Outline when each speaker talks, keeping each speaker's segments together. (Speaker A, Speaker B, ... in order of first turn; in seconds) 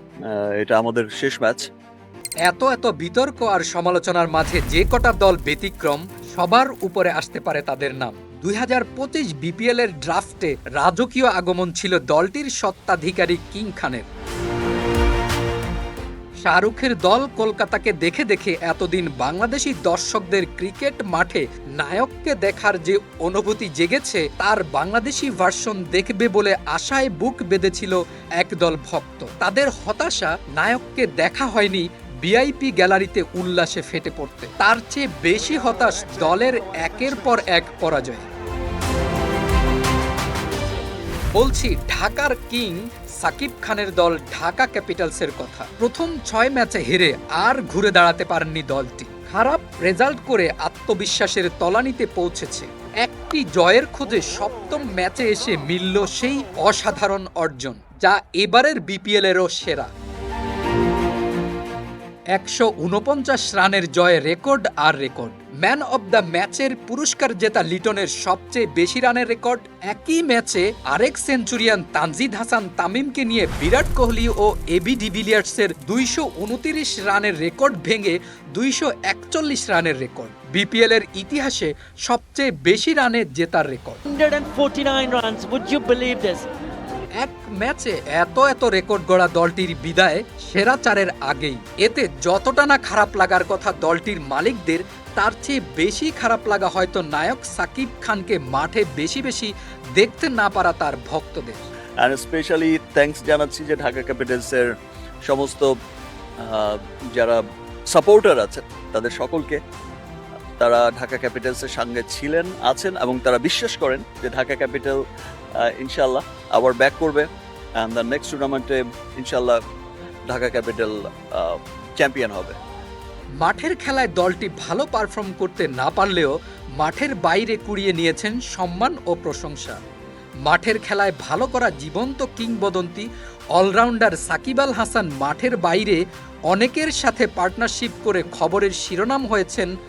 Speaker A: 0.2-1.7, 102.0-104.7, 105.2-105.7, 106.4-109.6, 110.6-115.0, 115.6-117.3, 117.8-119.6, 120.3-122.5
Speaker B: 2.4-14.1, 16.4-38.2, 41.3-59.9, 62.3-84.0, 87.2-101.6, 123.4-129.8, 130.4-139.7
Speaker C: 84.0-86.5